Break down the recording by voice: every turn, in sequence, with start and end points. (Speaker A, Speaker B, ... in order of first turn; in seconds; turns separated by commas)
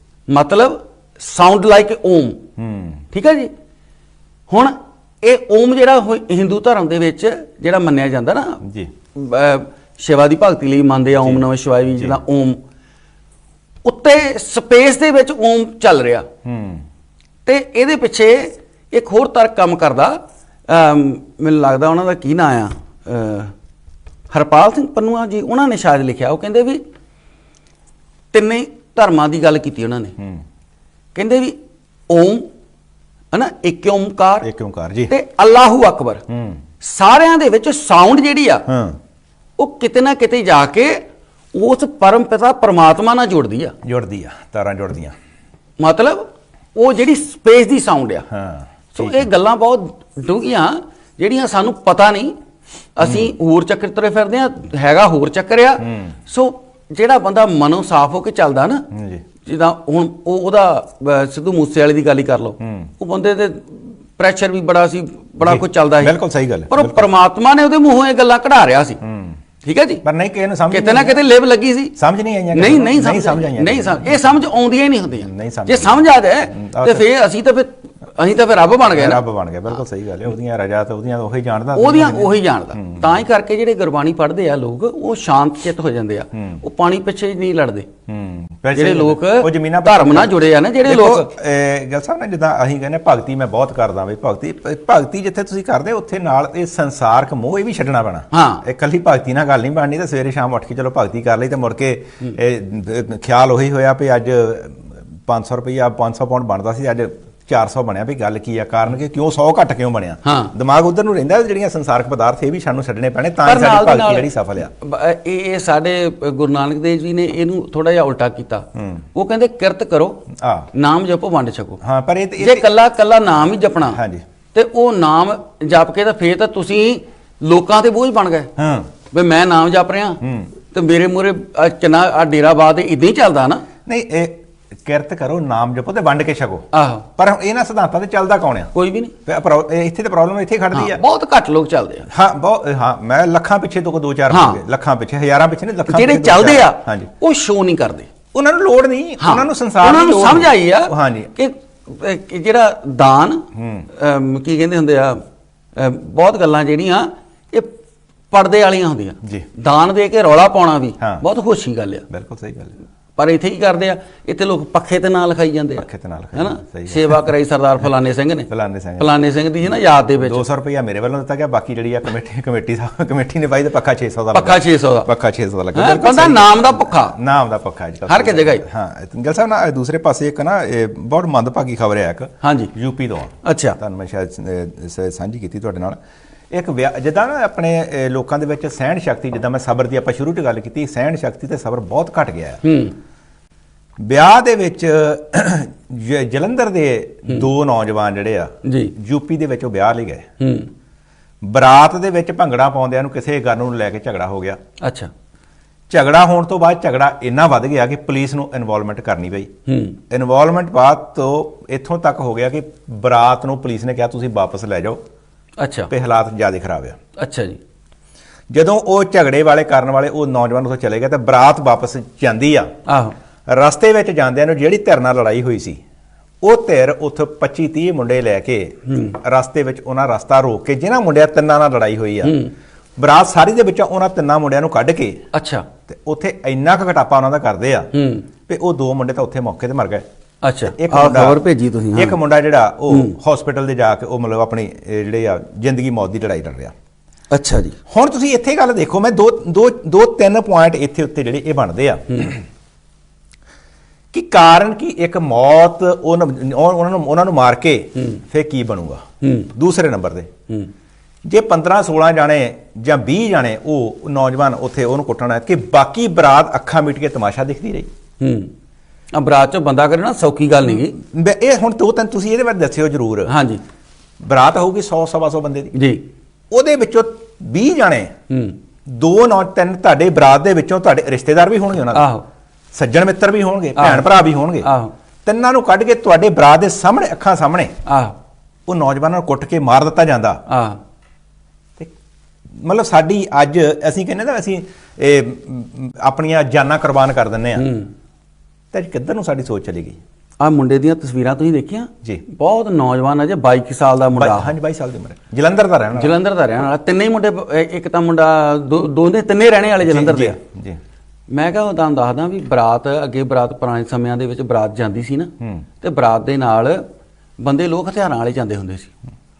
Speaker A: 0.3-2.4, Speaker B: 2.6-3.0, Speaker A: 3.1-3.5, Speaker A: 4.5-8.6, Speaker B: 8.6-8.9, Speaker A: 9.1-12.6, Speaker B: 11.2-12.2, Speaker A: 13.8-16.3, Speaker B: 16.4-16.8, Speaker A: 17.4-23.5, Speaker A: 24.3-26.8, Speaker A: 28.3-30.1, Speaker B: 30.2-30.4, Speaker A: 31.1-31.6, Speaker A: 32.1-32.5, Speaker A: 33.3-34.5, Speaker B: 34.4-35.1, Speaker A: 35.1-36.2, Speaker B: 36.3-36.6, Speaker A: 36.8-38.6, Speaker B: 38.7-39.0, Speaker A: 39.6-43.7, Speaker B: 43.8-45.1, Speaker A: 45.8-48.3, Speaker B: 48.3-49.3, Speaker A: 48.9-52.4, Speaker A: 52.9-58.9, Speaker B: 53.0-53.3, Speaker B: 55.8-56.1, Speaker B: 58.9-59.2, Speaker A: 59.4-66.2, Speaker B: 62.6-62.9, Speaker B: 65.4-67.0, Speaker A: 66.7-69.0, Speaker B: 69.0-69.4, Speaker A: 69.6-70.0, Speaker B: 70.0-71.2, Speaker A: 70.7-71.9, Speaker B: 72.0-74.4, Speaker A: 72.5-79.2, Speaker B: 75.2-77.0, Speaker B: 78.9-83.2, Speaker A: 81.8-87.9, Speaker B: 86.3-86.6, Speaker B: 88.1-114.7, Speaker A: 88.7-91.3, Speaker A: 98.3-98.6, Speaker A: 110.2-110.5, Speaker A: 113.4-120.2, Speaker B: 118.7-119.0, Speaker B: 120.3-120.7, Speaker A: 120.7-121.8, Speaker B: 121.8-122.7, Speaker A: 122.4-124.0, Speaker B: 123.9-124.2, Speaker A: 124.5-128.5, Speaker B: 128.6-128.9, Speaker A: 129.1-133.6, Speaker B: 130.2-130.5, Speaker B: 133.8-138.7, Speaker A: 136.7-137.1, Speaker A: 138.7-139.1, Speaker B: 139.2-141.0, Speaker A: 140.7-142.1, Speaker B: 142.1-147.1, Speaker A: 144.3-144.6, Speaker A: 145.9-148.1, Speaker B: 148.3-151.3, Speaker A: 149.2-155.2, Speaker B: 153.5-153.9, Speaker A: 155.8-157.8, Speaker A: 158.3-162.0, Speaker B: 162.1-162.7, Speaker A: 163.2-170.4, Speaker B: 165.8-167.3, Speaker B: 168.5-169.1, Speaker B: 170.2-186.0, Speaker A: 174.3-175.1, Speaker A: 175.7-177.2, Speaker A: 178.1-178.6, Speaker A: 182.4-182.7, Speaker A: 183.4-183.8, Speaker B: 186.5-192.6, Speaker A: 192.6-192.9, Speaker B: 194.0-200.3, Speaker A: 198.6-198.9, Speaker A: 200.4-200.7, Speaker B: 201.4-204.6, Speaker A: 204.8-205.1, Speaker B: 205.9-209.5, Speaker A: 209.7-210.0, Speaker B: 210.1-215.0, Speaker A: 215.6-215.9, Speaker B: 215.9-217.0, Speaker A: 217.2-217.6, Speaker B: 218.5-222.7, Speaker A: 222.9-223.1, Speaker B: 223.5-225.8, Speaker B: 226.4-232.4, Speaker A: 228.9-229.2, Speaker A: 232.2-232.5, Speaker B: 233.0-235.2, Speaker A: 235.3-235.6, Speaker B: 235.9-237.9, Speaker A: 237.9-238.2, Speaker B: 238.5-240.0, Speaker A: 240.4-242.2, Speaker B: 240.6-241.4, Speaker B: 241.9-246.7, Speaker A: 242.9-243.2, Speaker A: 247.3-247.8, Speaker B: 247.9-252.4, Speaker B: 254.1-260.3, Speaker A: 259.2-259.5, Speaker B: 261.2-267.9, Speaker A: 268.2-268.5, Speaker A: 269.1-271.0, Speaker B: 271.0-273.3, Speaker A: 273.3-273.6, Speaker B: 274.2-275.7, Speaker A: 275.7-276.0, Speaker B: 276.5-278.1, Speaker A: 278.3-278.6, Speaker B: 278.9-282.1, Speaker A: 281.9-282.2, Speaker B: 282.7-284.7, Speaker A: 283.8-284.9, Speaker B: 285.2-287.7, Speaker A: 287.9-288.1, Speaker B: 288.7-290.4, Speaker A: 290.5-290.8, Speaker B: 292.5-297.7, Speaker A: 297.6-297.9, Speaker B: 298.7-300.0, Speaker A: 300.4-304.5, Speaker B: 304.1-306.2, Speaker A: 305.9-310.4, Speaker B: 309.8-310.8, Speaker A: 311.3-316.8, Speaker B: 315.4-315.6, Speaker A: 317.4-318.9